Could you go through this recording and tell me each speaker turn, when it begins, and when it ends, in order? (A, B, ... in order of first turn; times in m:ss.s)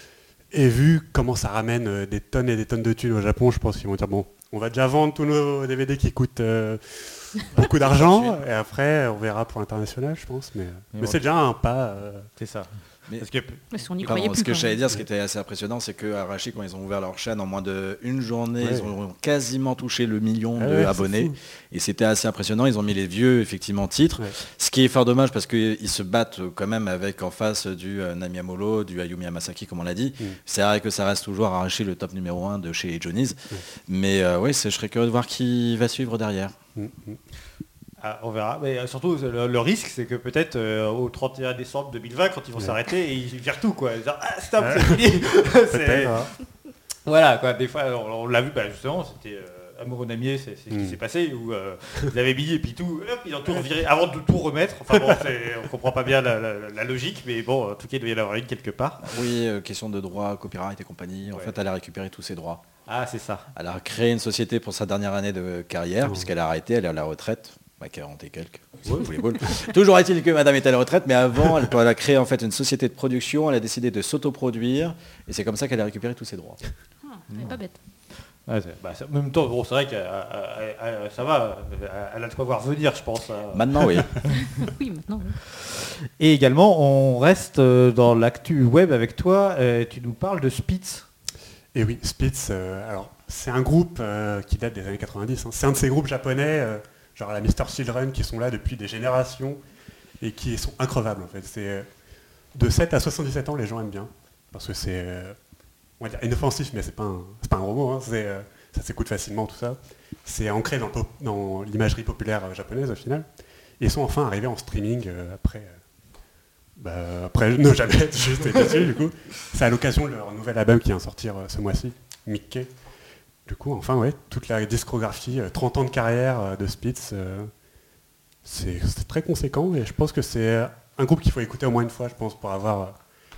0:00.5-0:12.3 A
0:07.6-0:08.4 B
0:10.9-0:11.2 B
0:12.4-0:13.6 B
0:13.7-0:14.8 C
0:14.0-0:36.5 D
0:18.6-0:18.9 A
0:20.6-0:21.4 A
0:36.8-0:37.2 A
0:38.0-0:46.3 B
0:44.6-0:46.3 A
0:47.1-0:59.1 B
0:50.7-0:51.0 A
0:59.0-1:02.6 D
1:02.9-1:03.5 B
1:03.6-1:16.6 D
1:06.0-1:06.3 A
1:17.0-1:17.8 C
1:18.2-1:24.3 B
1:23.5-1:24.3 D
1:24.4-1:25.4 C
1:26.2-1:31.1 B
1:31.7-1:39.6 A
1:40.2-1:41.9 A
1:42.5-1:45.4 A
1:46.0-1:53.3 A
1:53.8-1:55.8 A
1:56.8-2:02.7 A
2:03.5-2:07.5 A
2:08.4-2:13.0 A